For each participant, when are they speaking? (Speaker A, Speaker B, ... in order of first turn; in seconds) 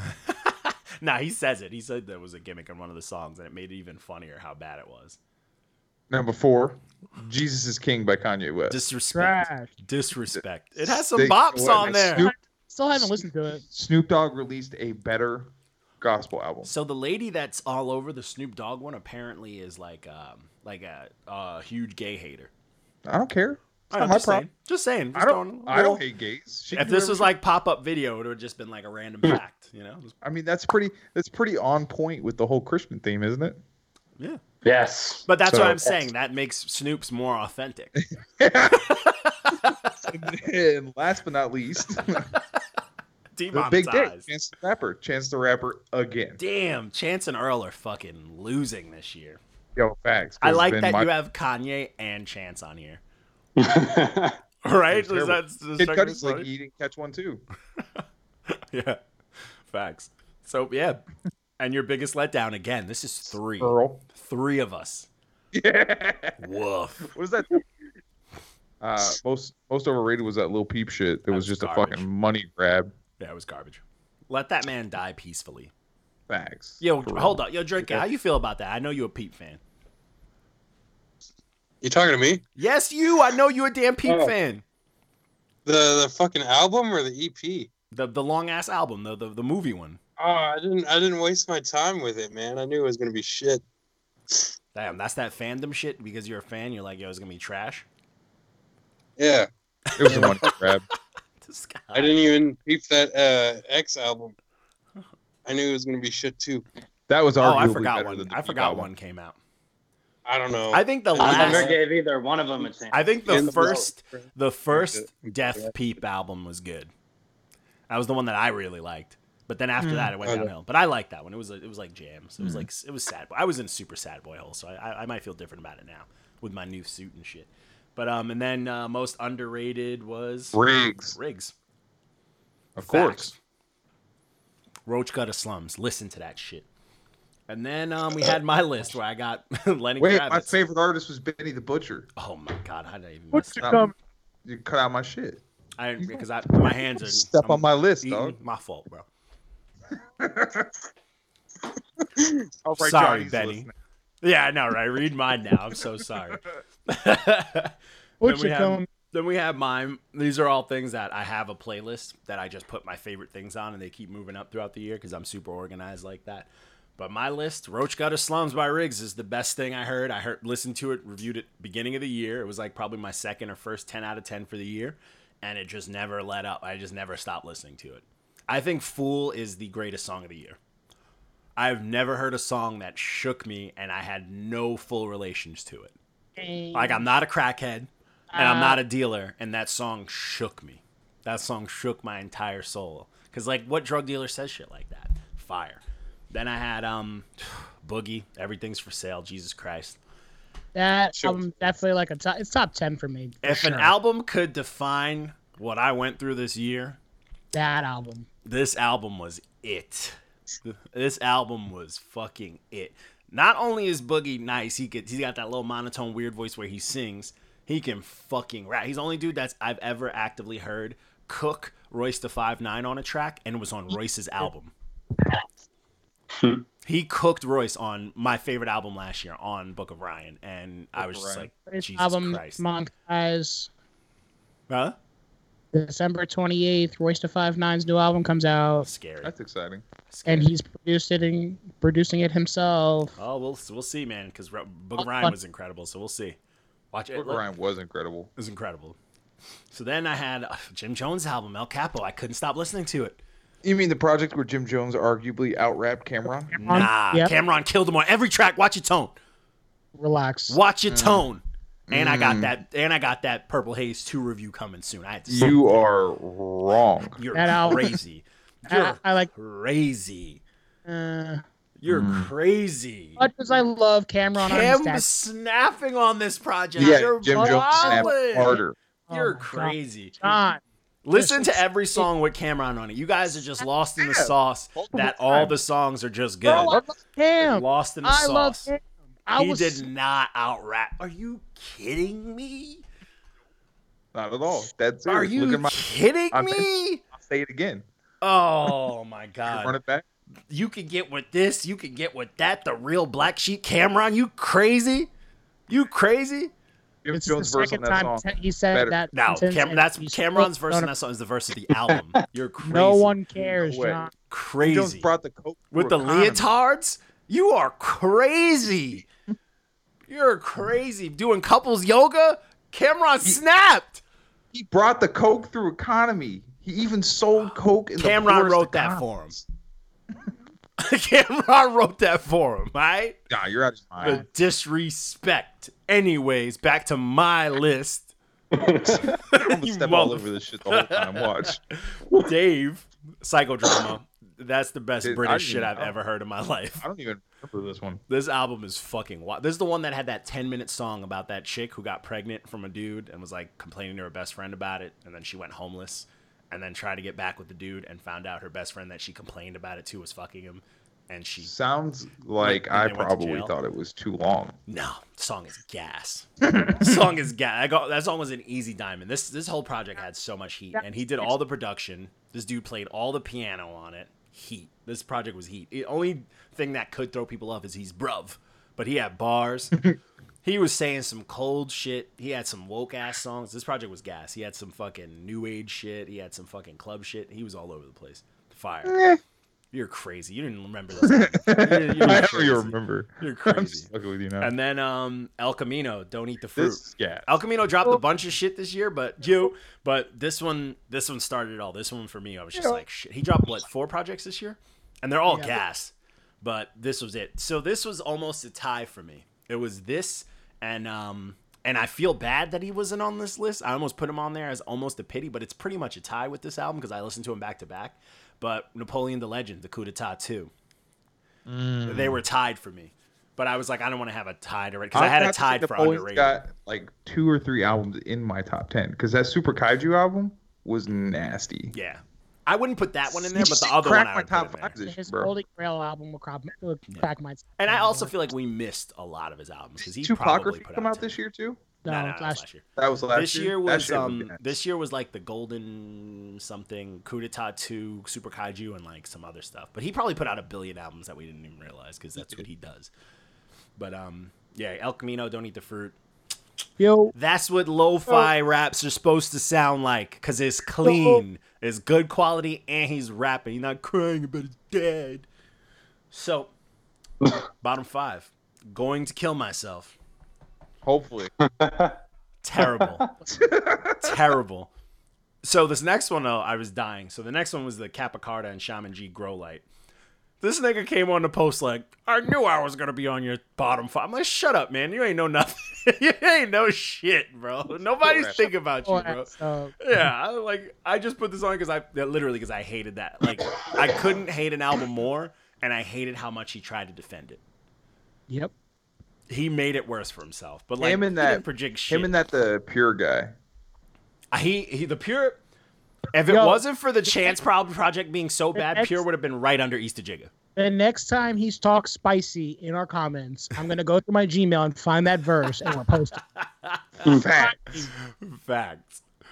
Speaker A: 0.3-5.2, 8.7-12.3, 16.6-22.5, 23.9-26.0, 26.7-30.1, 35.3-38.0, 38.8-40.0, 43.4-44.2, 46.4-49.4, 50.4-53.0, 54.6-56.5, 57.8-59.0, 59.6-61.0, 61.6-65.1, 66.4-67.1, 71.3-72.1, 73.2-75.7, 76.8-79.6, 82.6-84.6, 87.9-90.0, 94.7-97.8, 99.9-100.5, 101.4-102.2, 107.4-109.4, 110.7-111.7, 112.9-116.9, 117.9-131.5, 132.8-133.3, 134.8-136.6, 137.5-140.6, 142.2-143.7, 145.8-149.1, 152.8-153.7, 154.2-180.6, 181.6-185.9, 186.7-200.0, 203.4-207.0, 208.4-224.7, 226.8-232.6, 234.7-234.9, 238.8-239.3, 240.1-240.5, 243.2-246.4, 246.9-247.4, 248.4-248.9, 249.7-253.2, 256.6-259.1, 260.5-265.7, 267.2-270.4, 271.8-273.2, 274.4-280.3, 281.0-286.8, 287.4-288.7, 289.4-292.8, 295.1-297.0, 298.2-299.8, 300.5-305.1, 305.7-306.5, 309.1-313.1, 314.3-315.1, 315.7-319.1, 320.1-324.0, 328.0-329.4, 330.8-333.2, 334.0-338.1, 339.3-346.8, 348.1-361.5, 362.4-363.5, 364.7-379.9, 380.4-389.0, 389.7-420.5, 421.9-426.4, 431.7-434.8, 436.9-441.1, 441.9-452.9, 453.8-455.9, 457.1-465.3, 466.1-466.5, 467.6-469.9, 472.4-473.1, 474.0-474.7, 475.4-479.6, 480.4-497.4, 499.3-502.1, 504.3-505.4, 506.1-510.3, 516.3-517.0, 518.0-519.0
Speaker B: 6.1-8.8, 10.3-12.3, 12.9-16.7, 23.1-24.4, 25.1-27.3, 30.2-33.6, 35.5-35.9, 38.2-39.0, 40.0-42.3, 43.5-46.4, 49.8-51.1, 54.9-57.4, 63.6-64.0, 65.5-66.4, 67.1-67.6, 68.8-72.9, 76.3-78.0, 100.0-100.8, 107.1-108.9, 119.8-120.2, 122.4-122.7, 130.5-131.2, 132.8-133.3, 140.0-142.1, 143.6-143.9, 144.4-145.4, 146.0-148.4, 150.2-150.7, 152.6-153.7, 230.9-231.5, 239.2-239.8, 247.2-248.3, 253.6-256.9, 260.9-261.2, 261.9-262.5, 265.3-267.2, 271.9-272.3, 276.8-278.8, 284.0-285.6, 286.4-286.9, 294.1-297.8, 299.4-300.1, 307.0-308.9, 313.5-314.0, 314.6-316.5, 324.5-329.4, 333.3-334.2, 338.9-341.6, 345.0-345.9, 346.8-348.0, 361.4-364.6, 366.4-367.0, 388.8-389.2, 391.0-394.5, 396.6-397.4, 402.6-402.8, 421.4-422.2, 424.9-431.7, 433.1-435.3, 439.8-441.6, 442.8-444.6, 452.2-452.4, 470.8-471.3, 473.3-474.2, 488.0-488.4, 500.8-503.3, 517.0-517.6
Speaker C: 9.1-9.7, 11.8-13.6, 143.3-143.9, 158.2-158.9, 186.4-187.1, 188.3-188.8, 200.7-203.9, 207.5-208.3, 231.7-233.7, 235.7-238.9, 240.2-243.2, 245.0-245.3, 256.5-257.3, 259.9-260.6, 267.3-267.9, 268.6-269.3, 270.9-271.4, 273.2-275.0, 276.8-280.6, 281.1-282.1, 286.5-289.9, 307.1-310.9, 312.6-314.1, 370.8-371.3, 405.3-405.6, 434.8-438.1, 441.8-442.4, 456.8-457.1, 460.8-461.2, 488.4-489.7, 506.3-507.3, 508.5-509.0, 510.6-516.2, 517.3-517.9
Speaker D: 34.6-35.2, 53.6-54.4, 111.2-113.9, 338.5-338.9, 471.4-471.9, 472.6-473.0
Speaker E: 81.8-82.4, 84.0-84.3, 85.7-87.7, 90.2-93.6, 99.2-100.5, 101.9-104.3, 105.5-106.6, 110.2-111.8, 113.3-115.7, 120.2-120.5, 201.2-201.7